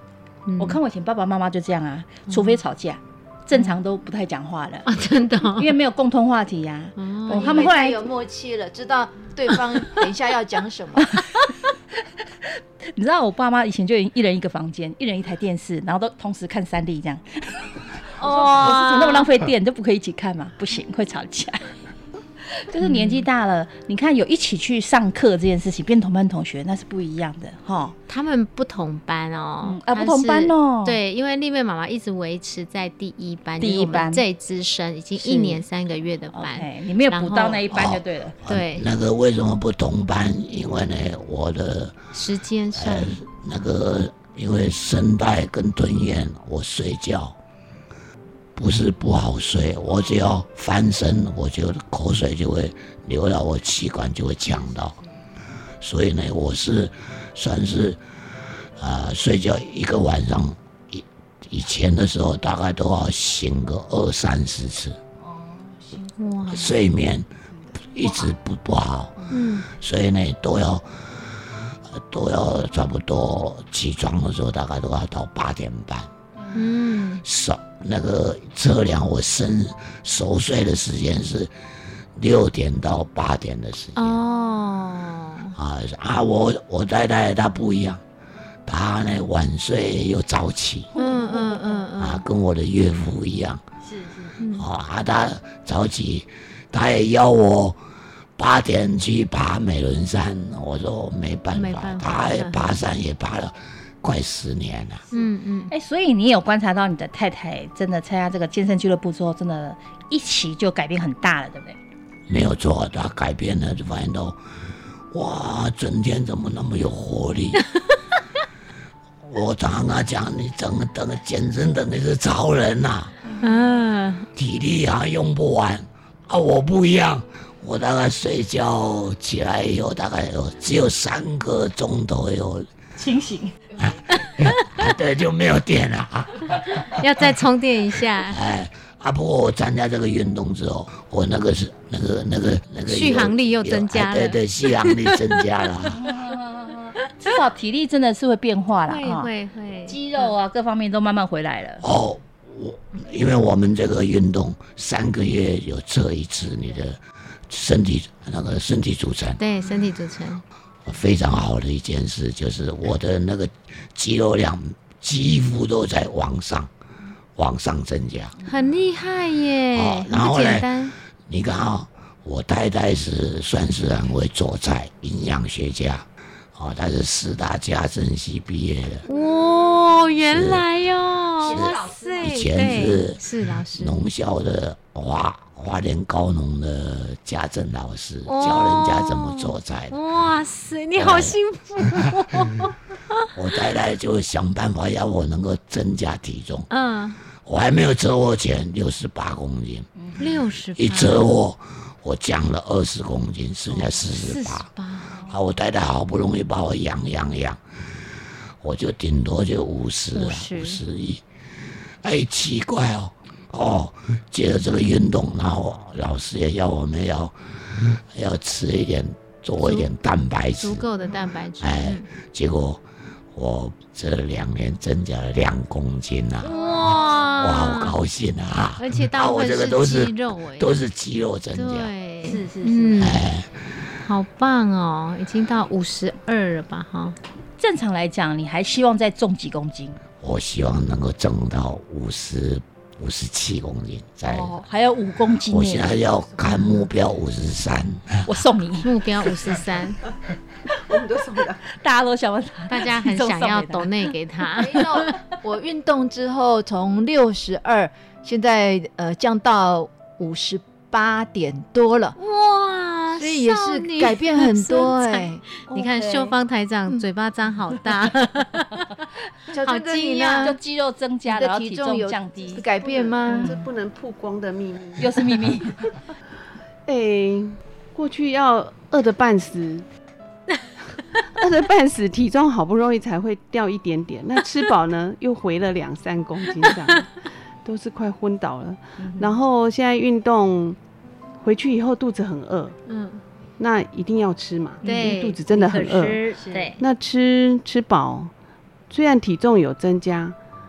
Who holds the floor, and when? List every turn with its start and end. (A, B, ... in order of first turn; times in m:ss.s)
0:00.5-0:00.8 A
0:00.6-0:04.9 B
0:02.3-0:02.6 A
0:04.9-0:05.8 A
0:05.5-0:08.0 B
0:07.0-0:07.7 A
0:07.3-0:11.2 C
0:12.4-0:21.6 B
0:18.2-0:19.2 A
0:22.5-0:28.0 B
0:22.8-0:23.3 A
0:28.1-0:37.7 A
0:29.6-0:31.0 B
0:33.6-0:34.2 B
0:35.2-0:35.6 B
0:36.3-0:38.4 B
0:37.7-0:42.0 D
0:38.5-0:38.9 A
0:42.1-0:43.2 A
0:42.8-0:47.4 D
0:48.6-0:55.0 D
0:55.8-0:58.0 D
0:58.8-1:05.0 D
1:05.2-1:06.1 B
1:06.2-1:06.8 A
1:06.5-1:07.3 D
1:07.8-1:09.2 D
1:08.0-1:08.3 B
1:09.3-1:09.7 A
1:09.7-1:10.9 D
1:12.0-1:16.1 D
1:16.4-1:16.7 B
1:16.5-1:17.2 A
1:17.2-1:21.5 D
1:22.2-1:24.2 D
1:24.0-1:25.6 A
1:25.6-1:28.0 D
1:28.7-1:30.9 D
1:31.0-1:31.9 B
1:31.0-1:32.2 A
1:32.0-1:33.6 D
1:33.8-1:34.4 B
1:34.4-1:34.7 A
1:34.6-1:37.8 D
1:38.4-1:45.1 D
1:41.5-1:42.7 A
1:45.1-1:45.7 A
1:45.7-1:51.8 B
1:52.3-1:54.4 D
1:55.1-1:57.7 D
1:59.2-2:03.1 D
2:03.4-2:04.3 A
2:04.4-2:12.7 D
2:13.0-2:13.6 B
2:13.8-2:17.0 D
2:16.8-2:18.4 A
2:18.3-2:26.0 D
2:22.9-2:25.7 A
2:25.9-2:29.3 B
2:28.9-2:30.3 A
2:29.9-2:31.8 B
2:31.8-2:39.4 D
2:39.4-2:40.4 A
2:40.9-2:46.7 D
2:47.4-2:48.4 D
2:48.5-2:50.9 A
2:49.7-2:50.7 D
2:51.3-2:59.0 D
2:59.1-3:04.0 A
3:00.3-3:00.6 D
3:01.4-3:02.5 B
3:01.5-3:03.2 D
3:03.8-3:10.0 D
3:08.2-3:13.3 A
3:11.0-3:11.4 D
3:13.4-3:16.7 D
3:16.7-3:17.2 A
3:17.4-3:19.9 D
3:20.0-3:20.4 B
3:20.2-3:21.3 A
3:20.8-3:24.7 D
3:23.7-3:25.2 A
3:25.2-3:27.6 D
3:28.6-3:31.2 D
3:30.1-3:30.8 A
3:32.0-3:40.9 D
3:39.6-3:39.9 A
3:40.6-3:42.1 A
3:41.6-3:46.5 D
3:46.4-3:48.0 A
3:47.4-3:51.9 D
3:48.8-3:50.7 A
3:51.5-3:53.2 A
3:52.2-3:53.2 B
3:53.0-3:53.5 D
3:54.0-3:57.2 A
3:57.6-4:00.0 B
4:00.2-4:04.6 D
4:04.3-4:06.0 B
4:05.5-4:08.3 D
4:06.4-4:06.9 A
4:08.2-4:09.0 B
4:08.8-4:10.0 A
4:10.8-4:11.6 C
4:11.7-4:14.2 B
4:12.7-4:15.2 A
4:14.6-4:22.2 C
4:22.2-4:29.0 A
4:23.2-4:25.4 C
4:25.7-4:26.4 B
4:29.5-4:30.6 C
4:29.6-4:30.6 A
4:30.4-4:32.6 B
4:31.3-4:33.5 C
4:32.8-4:35.3 E
4:33.3-4:33.6 B
4:35.0-4:35.9 B
4:36.9-4:39.9 E
4:41.2-4:47.1 E
4:47.6-4:50.8 E
4:49.0-4:49.4 B
4:51.4-4:52.8 E
4:52.9-4:53.2 A
4:53.6-4:58.3 E
4:54.8-4:56.8 B
4:54.8-4:55.4 A
4:58.9-5:00.4 E